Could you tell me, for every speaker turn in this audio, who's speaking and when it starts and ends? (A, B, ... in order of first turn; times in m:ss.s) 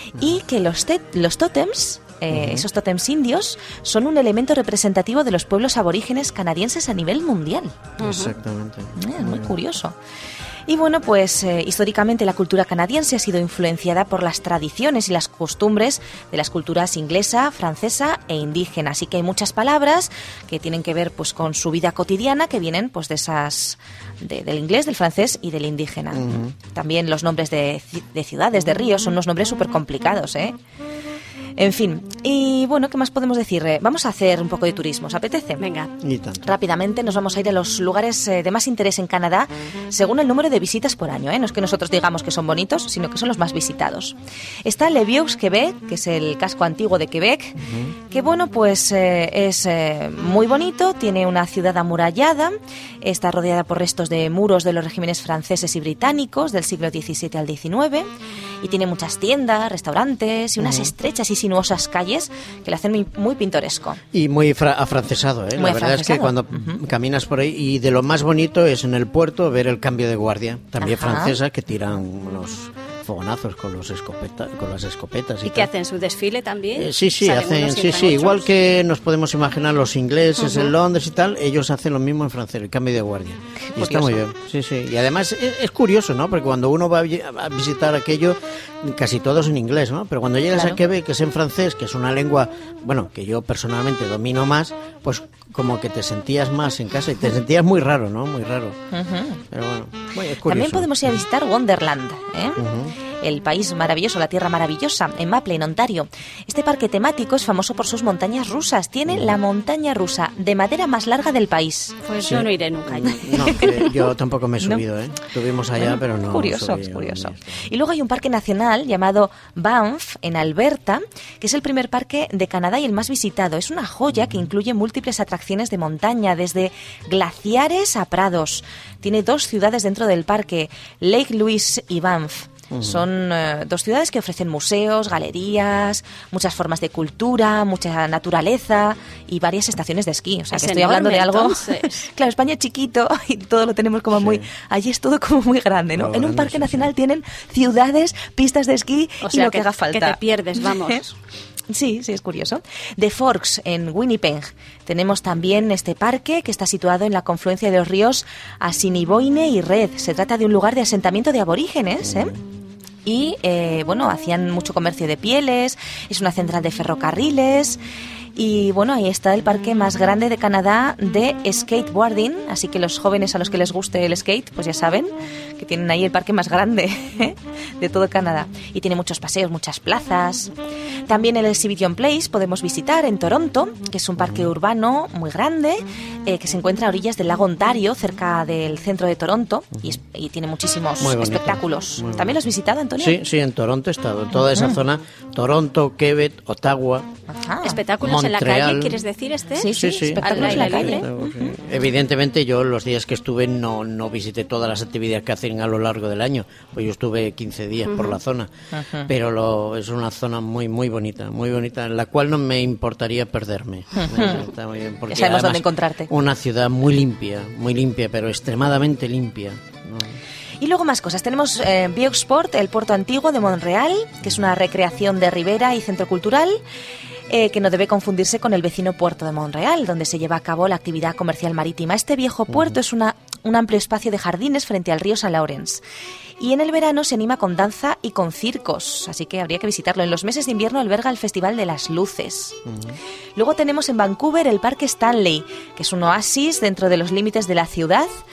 0:00.1-0:07.8 A
0:02.3-0:02.6 B
0:08.0-0:08.3 C
0:08.0-0:09.5 B
0:09.0-0:10.0 A
0:10.7-0:30.6 A
0:26.1-0:26.5 B
0:31.6-0:35.6 A
0:35.6-0:35.9 C
0:36.0-0:36.5 B
0:36.4-0:58.0 A
0:47.6-0:47.9 B
0:58.6-1:04.0 A
1:00.6-1:00.9 B
1:04.1-1:15.7 B
1:05.6-1:06.8 A
1:10.8-1:11.4 A
1:15.4-1:18.5 C
1:16.7-1:38.8 B
1:20.4-1:20.7 C
1:23.7-1:24.2 A
1:30.5-1:30.8 A
1:38.9-1:39.4 A
1:39.5-1:41.2 B
1:40.4-1:42.6 A
1:42.6-1:42.9 B
1:43.2-1:52.0 A
1:52.0-1:53.7 C
1:52.2-1:57.5 B
1:53.4-1:53.9 A
1:55.7-2:30.9 A
2:12.7-2:13.0 B
2:20.5-2:22.0 C
2:24.1-2:24.5 B
2:26.0-2:26.9 B
2:29.2-2:31.1 C
2:31.7-2:42.4 A
2:43.0-2:47.8 A
2:48.4-3:00.5 A
3:01.1-3:13.2 A
3:04.2-3:04.5 B
3:11.0-3:12.4 B
3:13.0-3:17.1 B
3:14.4-3:14.8 A
3:17.3-3:17.8 A
3:17.6-3:21.1 C
3:18.0-3:19.0 B
3:19.6-3:21.6 A
3:19.7-3:28.5 B
3:27.9-3:28.2 C
3:28.7-3:29.1 A
3:29.1-3:40.2 B
3:34.0-3:34.4 A
3:35.1-3:36.1 A
3:40.6-3:46.6 A
3:47.3-3:55.8 A
3:56.4-4:02.6 A
4:02.7-4:03.0 B
4:03.4-4:08.1 A